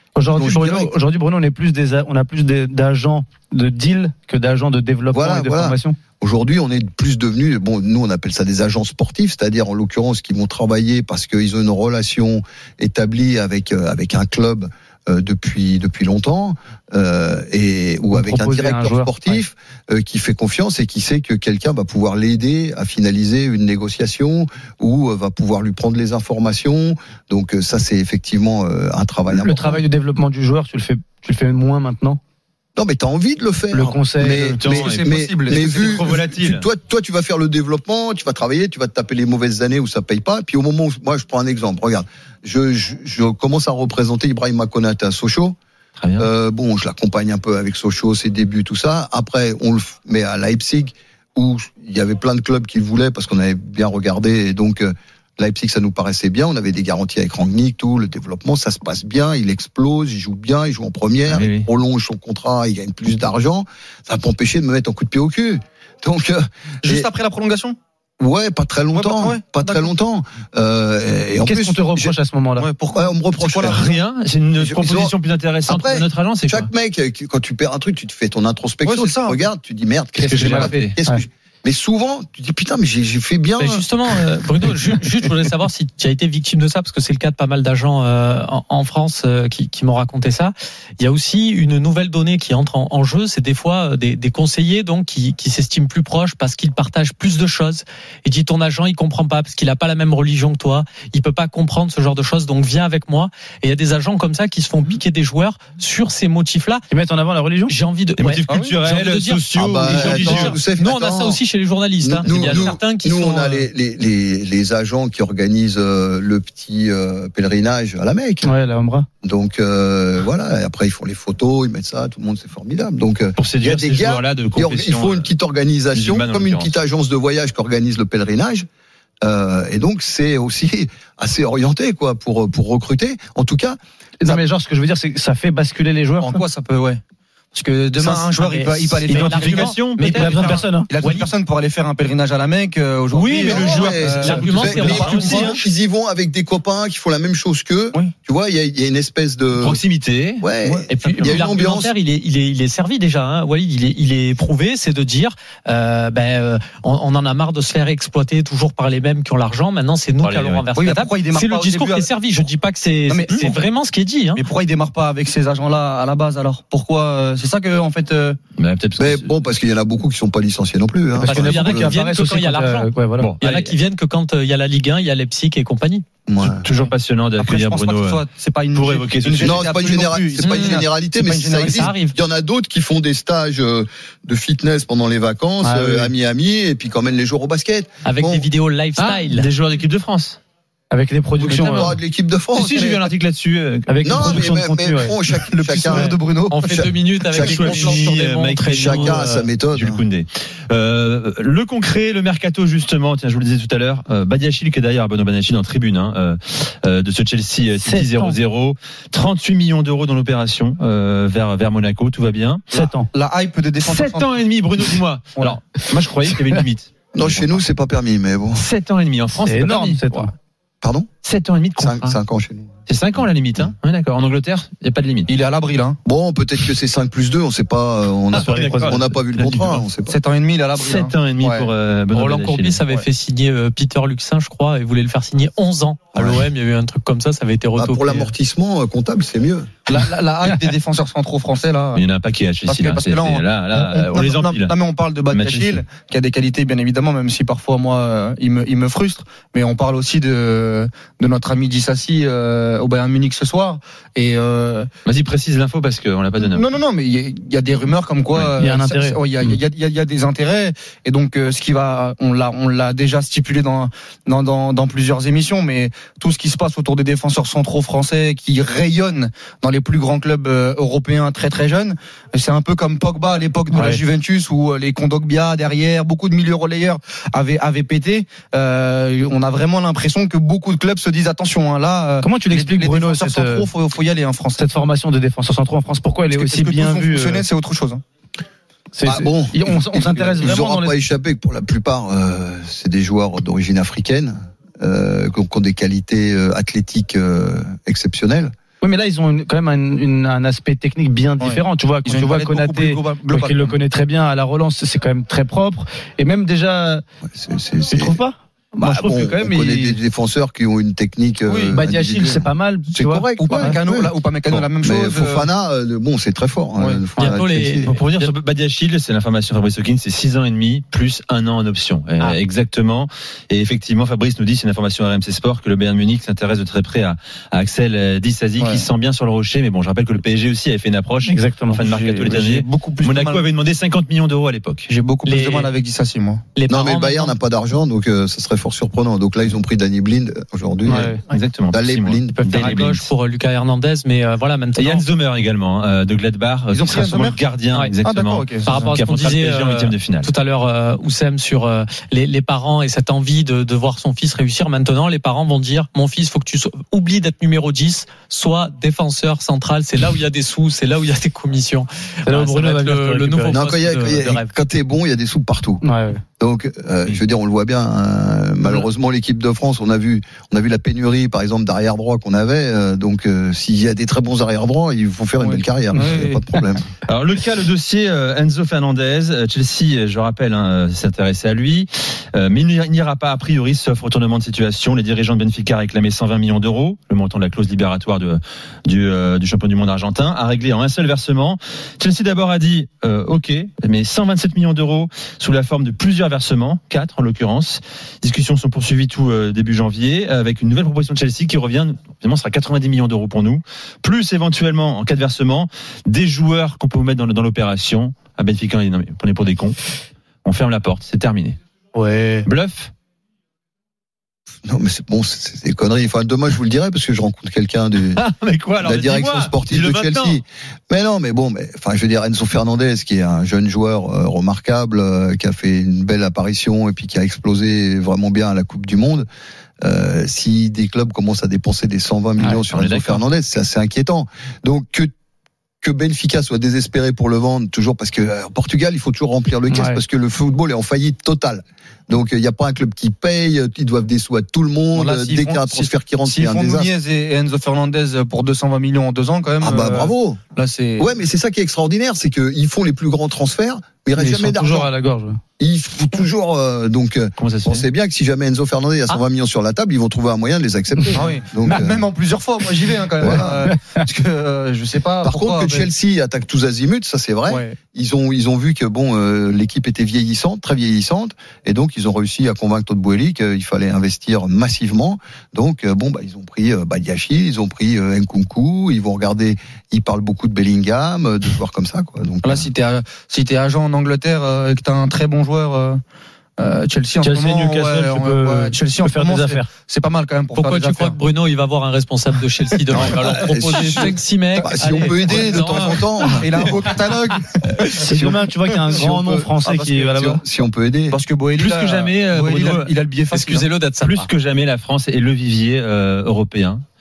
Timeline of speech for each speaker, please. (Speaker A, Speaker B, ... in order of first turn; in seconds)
Speaker A: 0.1-6.0, 18.1-19.4, 29.3-32.2, 33.7-34.6, 71.4-72.7, 80.5-81.2, 106.9-107.7, 118.4-119.1, 134.2-136.4, 138.0-140.9, 171.2-173.3, 185.6-186.1, 190.9-192.0, 193.9-195.1, 207.8-208.4, 219.4-220.3, 228.4-228.9, 258.6-259.6, 273.7-274.0, 282.2-283.7, 284.6-287.5, 288.9-291.0, 298.8-307.0, 307.9-310.0, 311.7-313.8, 331.3-331.8, 340.9-341.2, 362.2-363.5, 365.8-366.2, 411.9-412.5, 439.7-440.0, 454.2-455.4, 463.3-463.7, 487.2-489.7, 498.0-500.4
Speaker B: 0.3-0.9, 5.1-29.8, 32.8-45.6, 46.2-67.1, 68.2-72.2, 73.0-74.0, 74.6-75.2, 75.7-84.1, 109.5-111.4, 112.0-118.5, 119.2-128.7, 129.2-134.4, 143.4-149.8, 150.4-151.9, 169.0-172.0, 176.3-176.7, 179.4-188.5, 191.4-193.0, 194.1-198.1, 198.7-200.0, 217.1-218.6, 220.8-221.1, 221.8-223.7, 226.1-230.2, 236.2-236.5, 237.8-239.7, 289.1-298.5, 307.3-308.2, 308.8-317.9, 336.7-341.2, 341.7-342.8, 363.5-365.8, 366.4-376.9, 414.6-418.2, 418.8-429.3, 429.8-435.1, 435.8-446.9, 449.6-450.4, 451.0-454.9, 455.6-462.1, 463.2-463.7, 465.2-482.7, 492.9-496.7, 499.1-499.7, 500.2-501.2
Speaker C: 34.4-36.6, 46.0-46.3, 61.3-61.7, 73.5-76.7, 80.2-81.0, 108.2-110.6, 123.4-125.3, 125.9-126.8, 139.1-140.6, 143.1-145.5, 149.6-150.4, 160.2-160.7, 168.6-169.3, 173.2-173.7, 176.4-179.8, 189.0-190.4, 191.4-192.0, 192.5-194.5, 197.3-212.8, 213.8-217.6, 218.6-220.1, 221.2-222.2, 222.9-225.3, 228.3-229.9, 230.8-232.8, 241.9-244.7, 245.3-245.9, 255.1-256.8, 317.9-334.9, 341.3-343.1, 344.8-350.3, 377.1-409.8, 410.4-411.6, 412.4-412.9, 418.1-420.4, 432.7-433.2, 457.4-457.8, 501.5-503.0, 504.0-506.8
Speaker D: 34.6-36.1, 66.8-67.8, 68.9-69.9, 72.6-73.5, 78.8-79.4, 108.5-108.8, 136.2-137.0, 137.5-145.6, 150.6-151.2, 160.8-162.4, 163.1-163.6, 164.4-168.4, 176.8-181.9, 195.5-196.8, 212.7-214.4, 225.3-226.0, 230.1-231.7, 239.9-242.0, 242.7-254.9, 256.4-284.6, 286.3-288.0, 301.4-303.8, 313.4-315.5, 316.8-317.1, 328.6-328.9, 331.8-333.5, 334.9-336.4, 346.7-347.4, 348.1-348.6, 375.4-376.4, 444.9-451.1, 461.2-465.9, 467.5-467.8, 482.4-486.0, 486.6-491.2, 494.9-495.9, 496.4-498.0, 499.7-500.4, 501.1-503.7
Speaker E: 83.6-106.8, 107.7-113.7, 139.1-139.8, 143.5-145.6, 150.9-164.4, 171.2-172.9, 173.4-176.0, 180.4-180.9, 181.5-182.2, 188.0-189.5, 195.9-199.5, 232.1-238.3, 317.2-318.3, 335.2-335.7, 336.5-337.3, 342.5-345.1, 348.6-364.5, 490.5-496.8, 503.3-504.3